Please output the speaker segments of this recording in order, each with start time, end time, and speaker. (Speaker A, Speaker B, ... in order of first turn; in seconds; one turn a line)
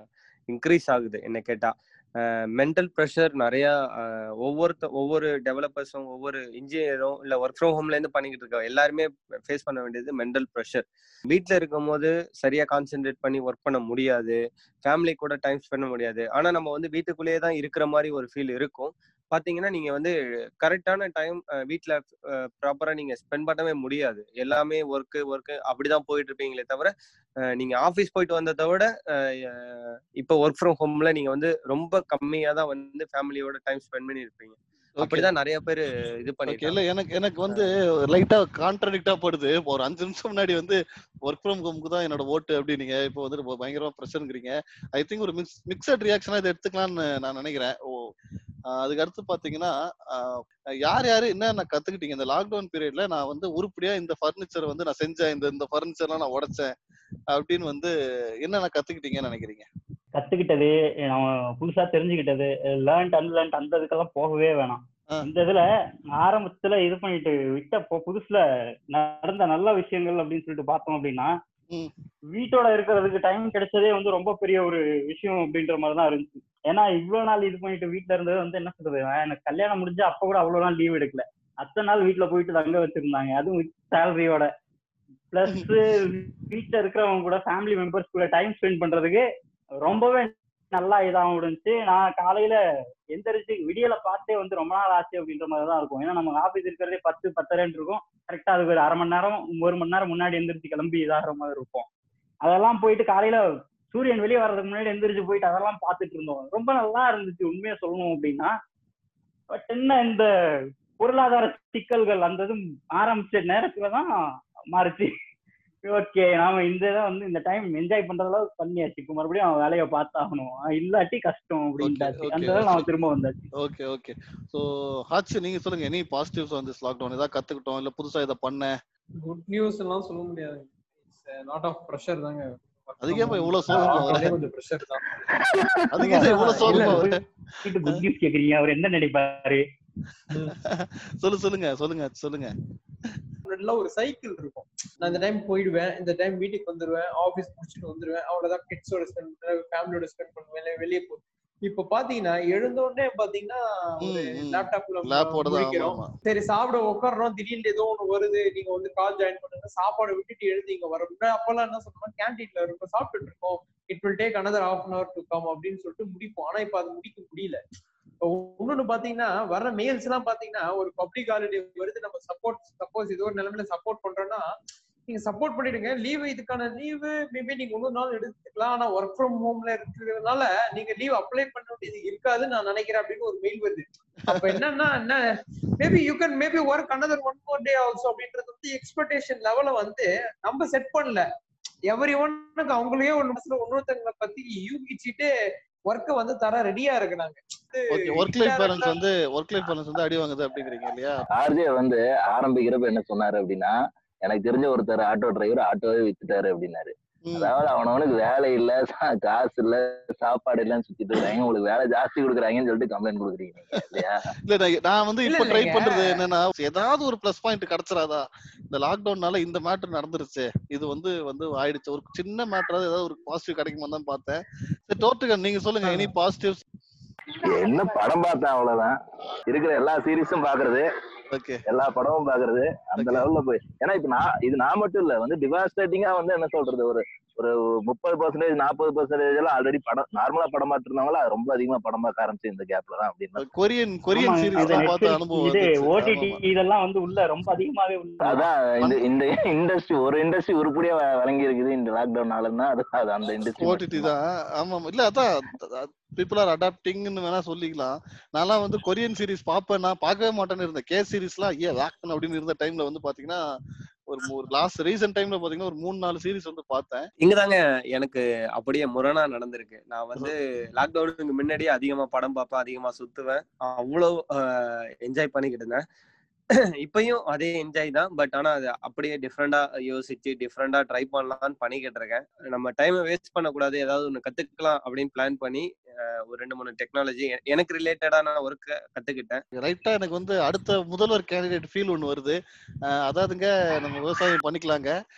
Speaker A: 0.5-26.9
Speaker A: 27.5-36.8
Speaker B: 35.0-35.3
Speaker B: 36.5-48.1
Speaker B: 48.7-56.7
Speaker B: 57.3-59.7
Speaker C: 60.1-65.6
Speaker C: 66.2-68.4
Speaker C: 68.9-71.3
Speaker C: 72.3-84.5
Speaker C: 85.3-89.2
Speaker C: 89.8-92.6
Speaker C: 93.1-101.8
Speaker C: 102.4-108.5
Speaker C: 109.5-110.3
Speaker C: 111.0-114.1
Speaker C: 114.7-115.1
Speaker C: 115.8-123.4
Speaker B: 121.8-122.9
Speaker B: 123.6-128.7
Speaker D: 129.2-135.0
Speaker B: 133.0-134.4
Speaker E: 135.3-136.0
Speaker B: 135.9-137.1
Speaker C: 136.1-139.6
Speaker D: 136.2-137.0
Speaker B: 140.3-142.5
Speaker D: 143.5-167.6
Speaker B: 154.0-156.1
Speaker D: 168.2-174.5
Speaker D: 175.1-191.2
Speaker B: 184.3-184.6
Speaker D: 191.9-195.3
Speaker D: 195.9-199.0
Speaker B: 197.9-201.3
Speaker E: 201.3-214.3
Speaker B: 207.2-207.5
Speaker B: 213.7-226.6
Speaker D: 215.2-216.2
Speaker E: 227.4-228.9
Speaker E: 229.5-230.8
Speaker B: 231.3-231.6
Speaker E: 231.7-243.4
Speaker B: 233.0-233.2
Speaker B: 243.4-246.4
Speaker C: 244.1-248.5
Speaker E: 244.6-244.9
Speaker E: 248.2-254.1
Speaker B: 253.2-263.4
Speaker B: 264.1-267.1
Speaker A: 267.2-275.8
Speaker A: 276.8-289.4
Speaker B: 289.6-294.9